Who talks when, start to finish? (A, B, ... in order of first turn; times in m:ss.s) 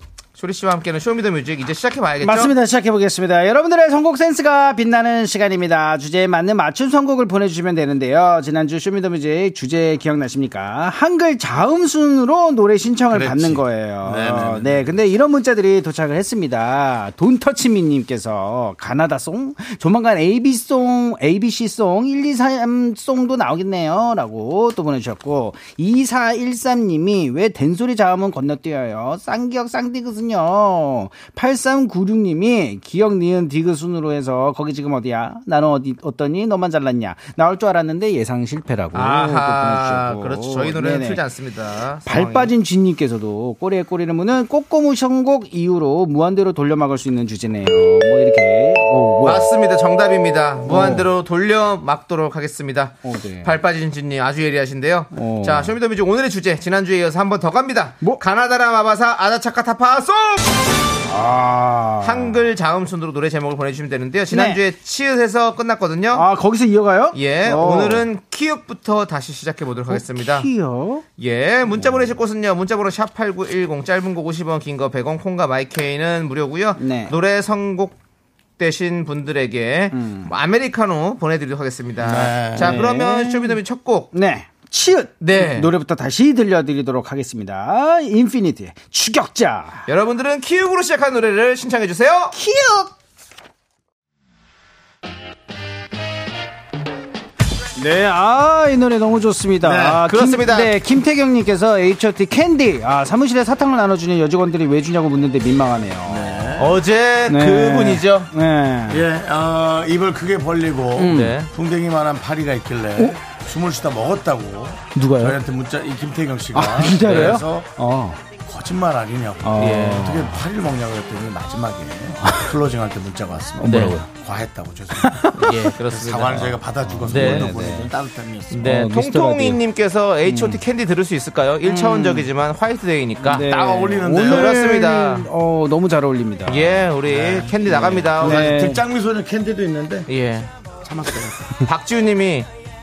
0:00.4-0:02.5 A
0:02.2-0:41.2 B
0:13.1-0:14.8 C
0:38.9-0:42.5 A
0:42.0-0:49.5 B
0:49.2-1:00.5 A
0:50.6-0:51.1 B
0:53.0-0:53.5 B
0:55.1-0:55.7 B
1:01.1-1:02.4 B
1:02.0-1:06.3 A
1:04.3-1:04.6 B
1:06.1-1:08.0 B
1:07.1-1:10.5 A
1:09.9-1:11.0 B
1:11.2-1:18.0 A
1:11.8-1:12.0 B
1:16.8-1:17.1 B
1:18.6-1:24.1 A
1:19.9-1:20.3 B
1:22.0-1:22.8 C
1:22.6-1:23.6 B
1:24.1-1:29.8 B
1:25.2-1:25.7 A
1:29.9-1:32.3 A
1:32.3-1:32.9 B
1:37.8-1:46.5 B
1:39.6-1:40.0 C
1:40.0-1:40.7 A
1:46.0-1:46.8 C
1:46.6-1:48.3 A
1:47.3-1:49.0 B
1:48.9-1:57.7 C
1:51.0-1:51.4 B
1:51.1-1:51.5 A
1:54.9-1:55.4 B
1:56.5-1:58.2 B
1:57.0-1:57.4 A
1:58.4-2:08.7 C
1:59.4-2:00.4 B
1:59.6-2:00.1 A
2:02.2-2:02.6 B
2:03.6-2:04.1 B
2:03.6-2:04.0 A
2:05.0-2:05.7 B
2:05.3-2:07.5 A
2:06.8-2:07.9 B
2:08.5-2:13.5 A
2:08.6-2:09.6 B
2:10.2-2:10.6 B
2:11.6-2:12.3 B
2:13.2-2:16.9 B
2:13.3-2:14.6 C
2:14.0-2:15.3 A
2:16.4-2:18.6 A
2:17.1-2:20.1 C
2:17.7-2:18.8 B
2:20.1-2:20.5 A
2:20.8-2:21.5 C
2:21.6-2:22.5 A